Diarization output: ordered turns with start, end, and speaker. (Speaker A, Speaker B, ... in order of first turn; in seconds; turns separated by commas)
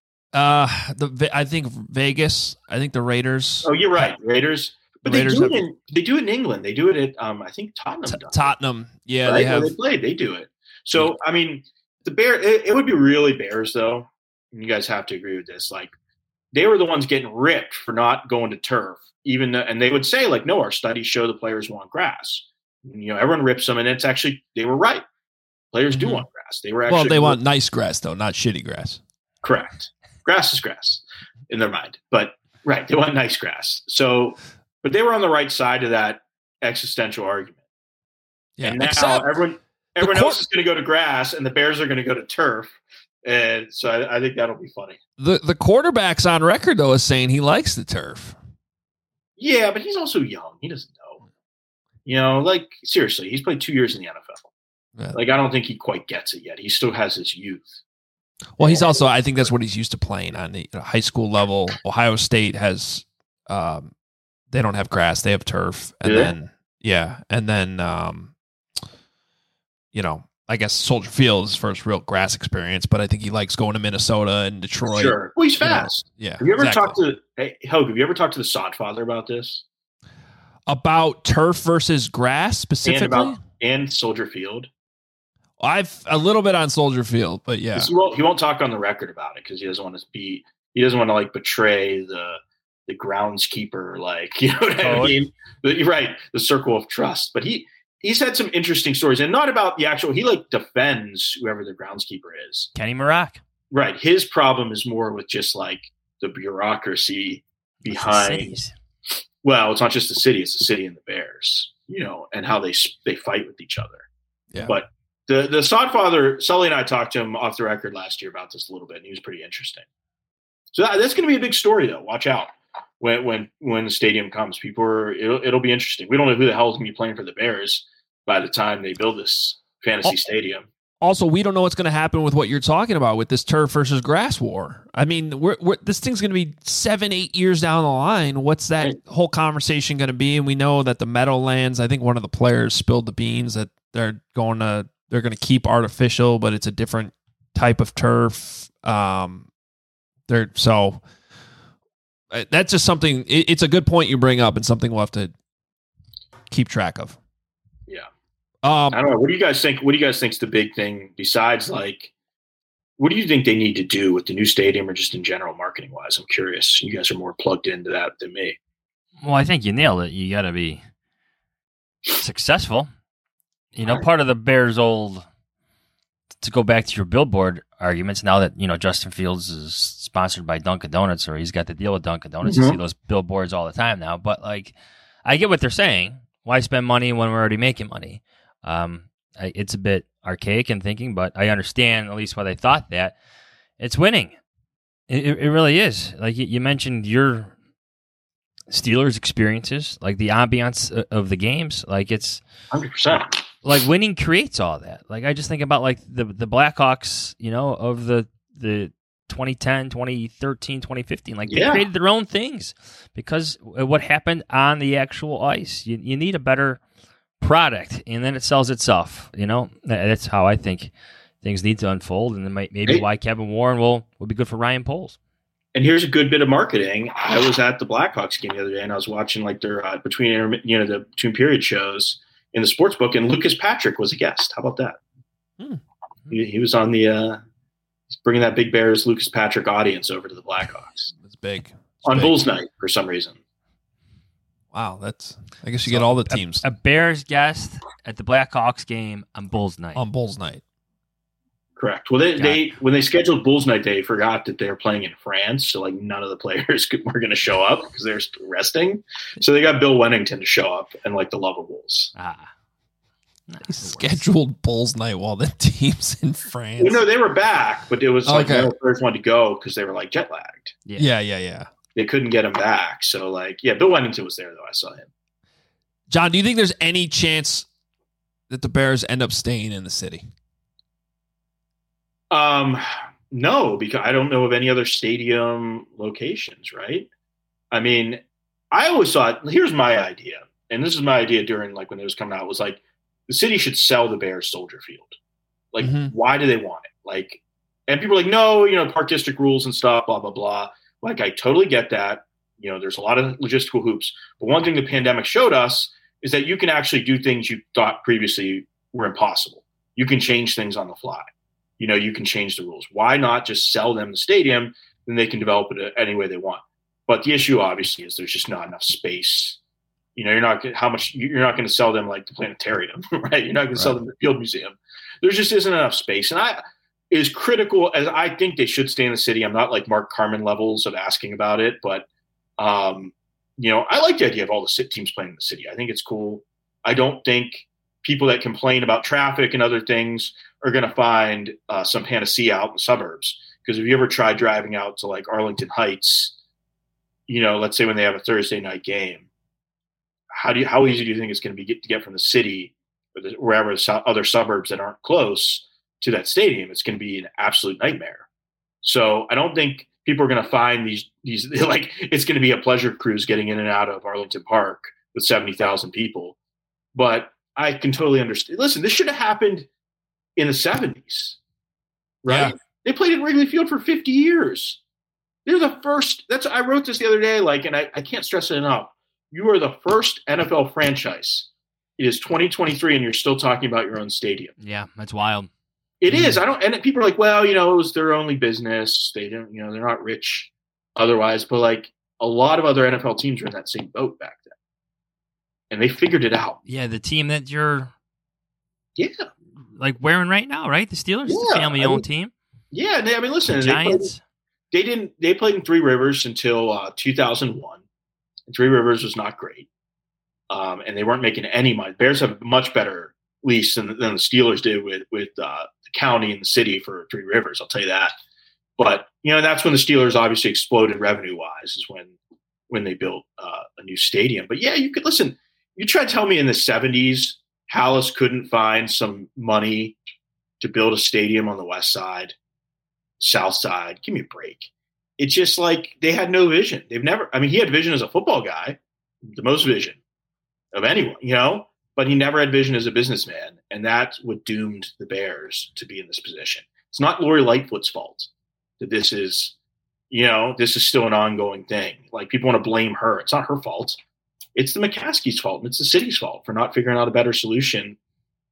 Speaker A: 0.3-3.7, Speaker B: 3.6-8.5, Speaker A: 5.0-5.6, Speaker A: 8.1-9.7, Speaker B: 9.2-15.9, Speaker B: 16.5-25.0, Speaker B: 25.7-27.4, Speaker A: 25.9-26.2, Speaker A: 26.9-29.0, Speaker B: 29.4-37.6, Speaker A: 38.6-39.4, Speaker B: 38.6-45.0, Speaker A: 40.0-40.4, Speaker A: 45.2-48.4, Speaker B: 49.4-51.2, Speaker B: 52.0-54.5, Speaker B: 55.1-57.8, Speaker A: 58.5-63.9, Speaker B: 58.6-59.5, Speaker A: 64.5-68.3, Speaker B: 66.0-66.3, Speaker A: 69.9-77.0, Speaker B: 74.9-79.6, Speaker A: 80.7-83.4, Speaker B: 82.8-84.7, Speaker A: 85.6-87.9, Speaker B: 87.7-102.7, Speaker C: 94.8-95.2, Speaker C: 102.7-103.4, Speaker B: 103.7-108.5, Speaker C: 107.8-108.7, Speaker B: 109.4-114.0, Speaker B: 114.6-119.8, Speaker B: 120.7-130.7, Speaker A: 131.0-149.5, Speaker A: 150.3-151.0, Speaker A: 152.3-155.3, Speaker A: 156.5-157.2, Speaker A: 158.6-159.0, Speaker B: 158.9-162.1, Speaker B: 163.0-168.6, Speaker C: 169.2-170.8, Speaker C: 172.2-172.9, Speaker C: 173.7-175.2, Speaker C: 176.4-184.7, Speaker B: 182.4-182.8, Speaker C: 185.2-193.1, Speaker C: 193.8-194.4, Speaker C: 195.1-197.5, Speaker C: 198.7-202.4, Speaker B: 202.7-203.4, Speaker C: 203.6-216.8, Speaker B: 211.5-211.9, Speaker C: 217.4-225.2, Speaker B: 225.7-235.0, Speaker B: 236.3-237.4, Speaker B: 238.1-241.1, Speaker A: 241.1-242.4, Speaker B: 242.1-243.4, Speaker A: 244.7-246.6, Speaker C: 245.8-250.0, Speaker A: 249.9-250.6, Speaker B: 251.8-262.1, Speaker C: 252.4-252.7, Speaker C: 262.1-262.5, Speaker C: 263.5-264.2, Speaker A: 263.6-267.0, Speaker B: 266.8-270.8, Speaker A: 268.2-268.7, Speaker A: 271.0-271.7, Speaker B: 271.9-275.1, Speaker A: 276.1-277.7, Speaker A: 278.5-280.3, Speaker B: 282.3-287.1, Speaker B: 287.7-295.1, Speaker B: 295.7-311.2, Speaker A: 295.8-296.1, Speaker B: 311.8-319.6, Speaker B: 320.1-332.1, Speaker B: 332.6-346.3, Speaker B: 347.3-349.3, Speaker B: 350.3-358.2, Speaker B: 358.8-366.4, Speaker B: 366.9-369.7, Speaker B: 370.4-371.4, Speaker B: 372.2-374.8, Speaker A: 372.3-372.5, Speaker B: 375.4-384.5, Speaker C: 384.6-385.5, Speaker B: 386.0-394.5, Speaker B: 395.7-396.6, Speaker C: 396.6-397.9, Speaker B: 399.0-399.3, Speaker C: 399.8-402.3, Speaker B: 401.2-402.0, Speaker B: 402.7-404.1, Speaker C: 403.5-404.2, Speaker B: 404.7-407.8, Speaker B: 408.5-409.7, Speaker B: 410.5-418.1, Speaker B: 418.8-422.1, Speaker B: 422.7-429.9, Speaker B: 430.6-432.3, Speaker B: 433.2-438.8, Speaker B: 439.3-440.0, Speaker B: 440.7-448.3, Speaker B: 448.8-449.5, Speaker B: 450.1-454.0, Speaker B: 454.5-457.9